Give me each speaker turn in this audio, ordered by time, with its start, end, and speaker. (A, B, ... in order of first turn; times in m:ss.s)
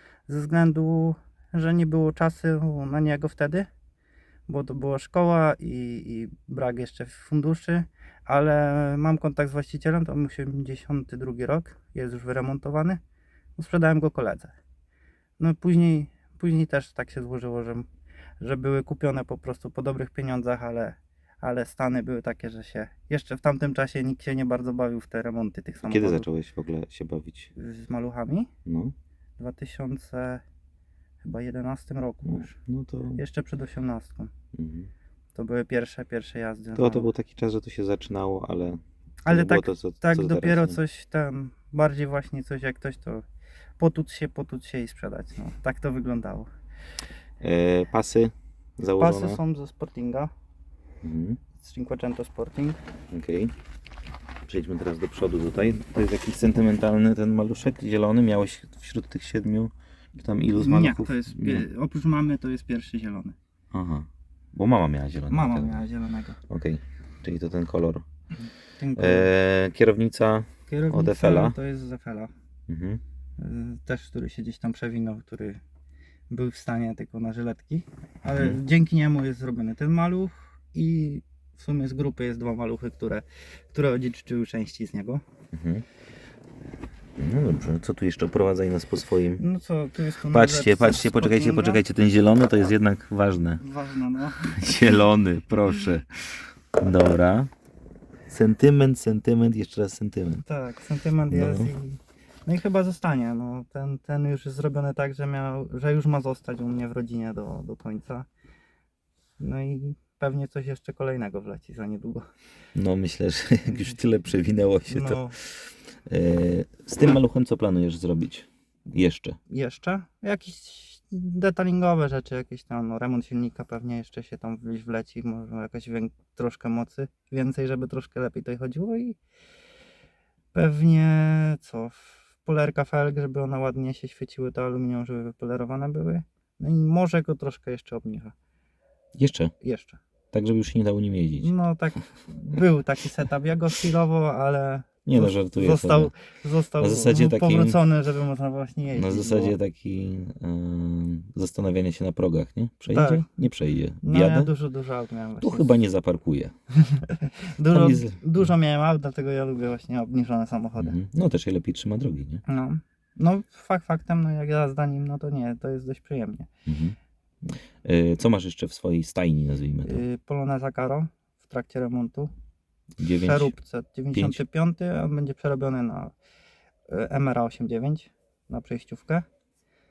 0:00.3-0:03.7 A
0:04.5-0:13.0 A
0:13.6-0:14.5 A
0:15.4-0:17.9 A
0:18.4-0:26.3 A
0:25.8-0:27.5 B
0:27.6-0:28.5 A
0:28.6-0:28.9 B
0:29.4-0:30.4 A
0:31.2-0:32.6 A
0:32.2-0:33.2 B
0:33.2-0:34.3 A
0:34.5-0:34.9 B
0:35.3-0:37.1 A
0:36.8-0:40.8 B
0:39.2-0:43.2 A
0:43.8-0:46.5 A
0:47.4-0:49.4 B
0:49.0-0:50.3 A
0:51.0-0:51.4 B
0:51.6-0:52.8 A
0:53.1-0:53.5 B
0:54.5-1:01.6 B
1:00.5-1:03.4 A
1:03.7-1:05.8 B
1:05.3-1:06.4 A
1:06.5-1:08.0 B
1:08.8-1:09.3 A
1:09.0-1:11.5 B
1:10.7-1:12.3 A
1:12.7-1:13.0 B
1:13.4-1:15.6 A
1:16.3-1:25.2 A
1:18.3-1:18.6 B
1:25.5-1:25.8 B
1:27.2-1:29.4 B
1:29.4-1:31.8 A
1:30.3-1:33.6 B
1:33.6-1:35.0 A
1:34.6-1:37.5 B
1:38.3-1:40.4 B
1:40.4-1:48.3 A
1:41.3-1:41.7 B
1:49.4-1:52.3 A
1:52.7-1:55.2 B
1:54.8-1:55.4 A
1:56.0-1:59.4 B
1:59.5-2:09.2 A
2:10.5-2:18.3 A
2:19.2-2:19.5 B
2:19.6-2:20.0 A
2:20.3-2:21.5 B
2:21.4-2:29.5 A
2:25.0-2:26.1 B
2:26.8-2:27.8 B
2:28.9-2:34.5 B
2:32.9-2:33.3 A
2:34.0-2:35.7 A
2:35.4-2:36.5 B
2:36.8-2:41.0 A
2:37.7-2:38.2 B
2:40.8-2:42.4 B
2:42.4-2:46.5 A
2:46.6-2:47.0 B
2:47.8-2:50.0 B
2:49.8-2:52.3 A
2:53.0-2:53.5 B
2:53.0-2:56.1 A
2:54.1-2:54.4 B
2:56.9-2:59.2 A